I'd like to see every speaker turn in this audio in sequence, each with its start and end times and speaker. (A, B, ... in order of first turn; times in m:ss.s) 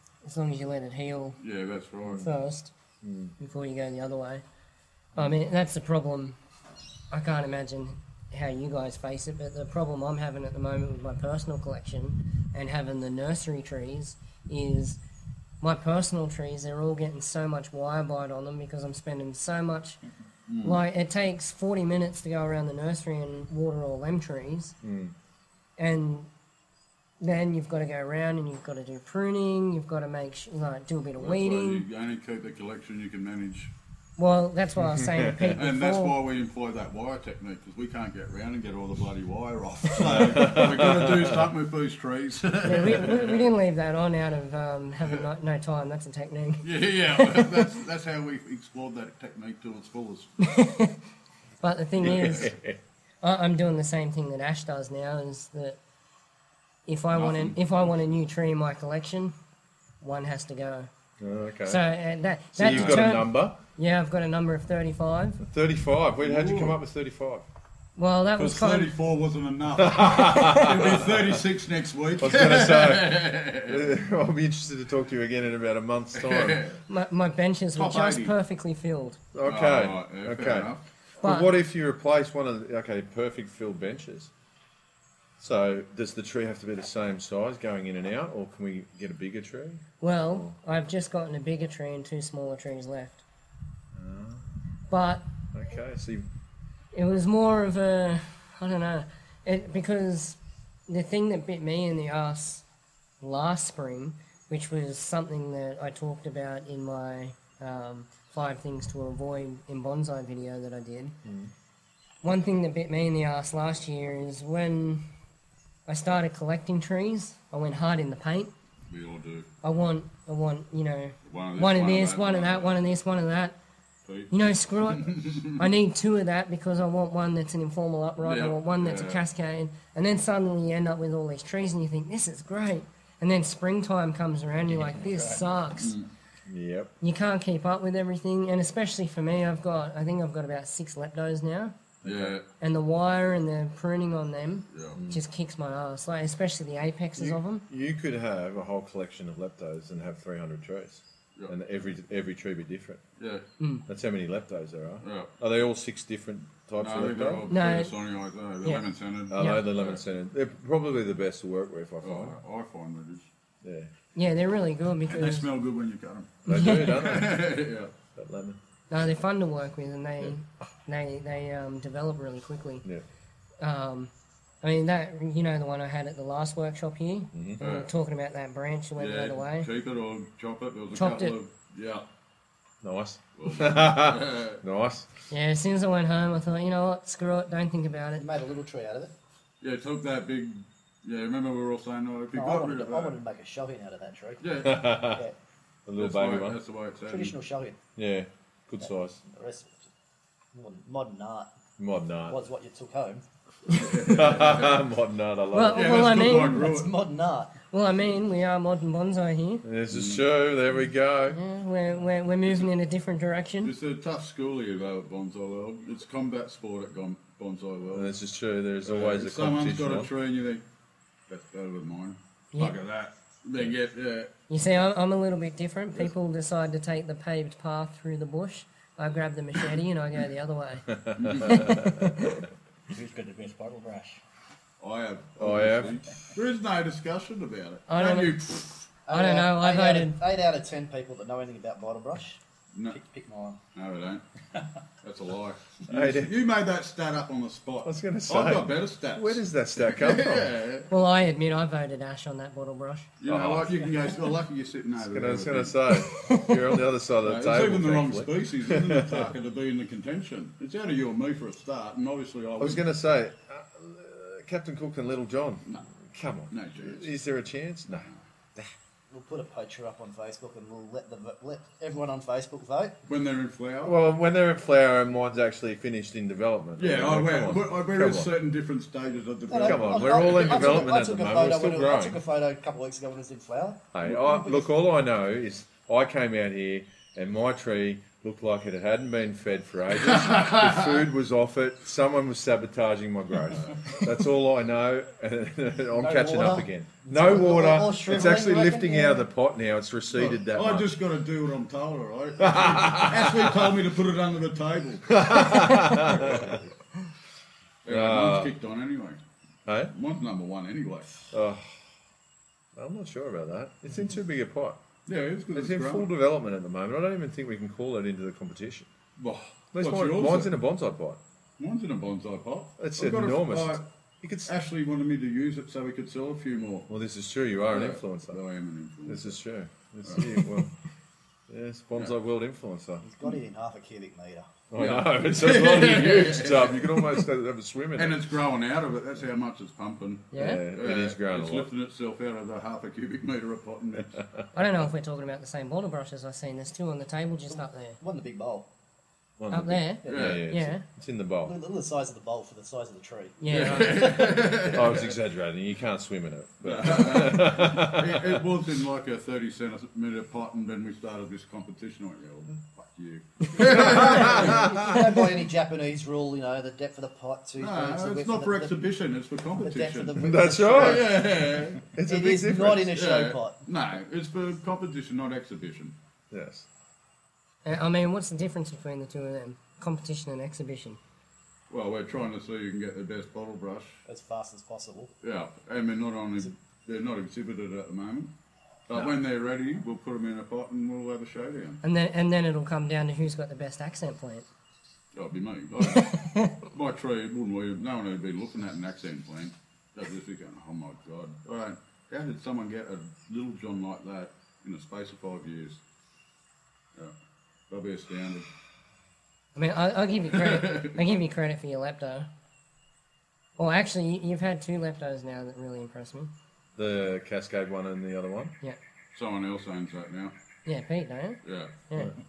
0:00.2-0:01.4 A
0:01.4-0:02.3 B
0:02.2-0:02.7 A
0:03.0-0:03.3 C
0:03.4-0:04.4 A
0:05.2-0:06.4 A
0:07.1-0:15.0 A
0:15.6-0:20.0 A
0:20.5-0:20.8 B
0:20.6-0:24.8 A
0:24.8-0:25.2 C
0:25.8-0:26.3 A
0:27.2-0:31.9 A
0:31.2-0:33.7 B
0:34.2-0:36.2 A
0:34.8-0:35.6 C
0:35.5-0:43.5 B
0:40.0-0:41.5 C
0:42.6-0:47.7 A
0:46.6-0:50.5 B
0:50.4-0:51.0 A
0:51.6-0:52.6 A
0:52.0-0:52.8 C
0:52.1-0:52.4 B
0:53.2-0:55.8 A
0:56.9-0:59.3 A
0:57.1-0:57.6 B
1:00.0-1:00.9 A
1:01.2-1:01.8 C
1:01.6-1:05.4 A
1:02.5-1:03.6 C
1:02.6-1:03.0 B
1:05.4-1:07.5 C
1:06.2-1:06.8 B
1:08.0-1:08.9 A
1:08.4-1:13.9 B
1:09.8-1:11.4 C
1:10.3-1:10.7 A
1:12.2-1:16.7 C
1:16.2-1:16.8 B
1:16.9-1:19.2 A
1:17.8-1:18.4 B
1:19.3-1:24.3 C
1:19.4-1:20.8 B
1:21.2-1:21.5 A
1:25.4-1:30.6 C
1:30.0-1:33.2 A
1:33.9-1:34.5 C
1:34.9-1:35.3 A
1:35.5-1:36.3 C
1:36.9-1:42.6 A
1:43.2-1:51.2 A
1:51.2-1:51.5 C
1:52.2-1:55.0 A
1:55.9-1:58.5 A
1:58.9-1:59.5 B
1:59.6-2:03.6 A
2:01.3-2:02.8 B
2:04.1-2:05.7 B
2:04.3-2:16.0 A
2:08.2-2:09.2 B
2:14.7-2:15.5 D
2:15.8-2:16.1 B
2:16.5-2:16.9 C
2:17.0-2:21.8 A
2:22.0-2:22.4 C
2:22.0-2:22.5 B
2:22.6-2:27.6 A
2:24.7-2:25.0 B
2:24.9-2:25.2 C
2:27.2-2:33.0 C
2:33.2-2:33.5 B
2:33.6-2:33.9 A
2:33.9-2:37.5 C
2:35.0-2:35.3 B
2:36.8-2:40.0 B
2:37.5-2:38.0 A
2:38.6-2:39.7 A
2:39.3-2:42.4 C
2:42.0-2:43.3 B
2:43.6-2:43.9 C
2:44.2-2:45.5 A
2:45.1-2:48.0 B
2:46.5-2:47.1 A
2:46.5-2:47.5 C
2:48.1-2:48.6 C
2:48.9-2:52.9 A
2:53.6-2:59.7 A
2:57.3-2:57.6 C
2:57.6-2:57.9 B
2:59.0-3:02.0 B
3:00.9-3:01.4 A
3:02.8-3:05.1 C
3:03.4-3:04.6 B
3:05.3-3:08.3 A
3:08.2-3:09.1 E
3:09.6-3:13.2 B
3:12.3-3:15.4 E
3:14.4-3:15.1 B
3:14.6-3:15.2 C
3:15.9-3:16.6 C
3:16.0-3:17.4 B
3:17.1-3:17.8 E
3:18.0-3:19.2 C
3:18.8-3:19.9 E
3:20.5-3:21.5 E
3:21.8-3:22.4 C
3:22.3-3:23.2 E
3:23.7-3:24.8 B
3:24.0-3:26.2 C
3:25.5-3:26.8 A
3:25.7-3:26.9 B
3:26.1-3:27.6 E
3:27.7-3:29.6 A
3:29.6-3:31.4 C
3:29.9-3:30.2 B
3:31.3-3:33.7 A
3:33.6-3:38.1 B
3:37.9-3:40.1 C
3:38.8-3:40.6 B
3:41.3-3:44.3 B
3:42.5-3:42.8 A
3:44.5-3:50.9 A
3:50.9-3:52.4 C
3:51.2-3:51.8 B
3:51.4-3:52.4 A
3:52.9-3:54.2 D
3:54.8-3:58.9 B
3:55.4-3:56.0 C
3:57.9-3:58.4 A
3:59.1-4:03.6 E
3:59.1-4:00.2 A
4:02.7-4:03.0 B
4:03.7-4:04.2 B
4:05.0-4:10.9 B
4:05.9-4:06.4 C
4:07.8-4:10.5 C
4:10.9-4:13.1 A
4:13.2-4:15.8 B
4:13.3-4:13.8 C
4:15.0-4:19.3 C
4:16.0-4:16.6 A
4:17.2-4:22.8 B
4:22.6-4:28.7 C
4:26.5-4:27.1 B
4:27.9-4:28.2 B
4:29.1-4:33.0 E
4:33.1-4:34.0 B
4:33.8-4:38.3 C
4:36.8-4:40.9 B
4:39.5-4:44.7 E
4:39.6-4:42.2 C
4:43.9-5:00.9 C
4:53.5-4:54.0 B
4:56.0-4:59.3 E
5:00.2-5:06.7 B
5:02.4-5:03.8 C
5:05.1-5:06.6 C
5:07.8-5:09.2 B
5:07.9-5:08.6 C
5:09.7-5:09.9 C
5:09.9-5:11.3 B
5:11.3-5:11.8 C
5:12.8-5:14.8 C
5:15.1-5:16.1 B
5:15.5-5:18.9 C
5:19.2-5:20.5 B
5:19.7-5:21.2 C
5:21.6-5:23.9 B
5:22.8-5:24.5 C
5:24.5-5:26.9 B
5:26.9-5:28.4 C
5:27.7-5:29.4 B
5:29.1-5:30.7 C
5:30.0-5:30.4 B
5:31.5-5:33.0 C
5:33.0-5:34.5 E
5:34.7-5:38.3 C
5:34.8-5:37.2 B
5:38.0-5:44.2 B
5:40.3-5:40.6 A
5:40.4-5:41.7 C
5:44.5-5:48.0 A
5:48.0-5:48.7 E
5:49.4-5:51.6 C
5:49.5-5:50.8 A
5:50.0-5:50.3 E
5:50.1-5:50.4 B
5:51.4-5:53.9 E
5:53.4-5:54.3 A
5:53.5-5:55.2 B
5:54.7-5:58.5 C
5:56.6-6:04.9 B
6:03.6-6:05.1 C
6:03.7-6:08.9 E
6:07.6-6:11.9 B
6:09.6-6:11.2 E
6:10.2-6:11.3 C
6:11.8-6:13.0 C
6:12.0-6:13.6 E
6:12.9-6:16.0 B
6:16.3-6:16.7 C
6:17.6-6:21.0 A
6:21.7-6:24.0 B
6:24.1-6:25.1 E
6:25.2-6:28.3 B
6:28.9-6:31.8 B
6:31.8-6:34.5 A
6:35.1-6:45.8 B
6:35.8-6:36.6 A
6:47.7-6:48.5 B
6:49.6-6:52.3 A
6:50.3-6:51.0 B
6:53.6-6:56.3 A
6:56.8-6:58.6 C
6:59.1-7:00.3 B
7:00.7-7:02.1 A
7:01.4-7:01.7 B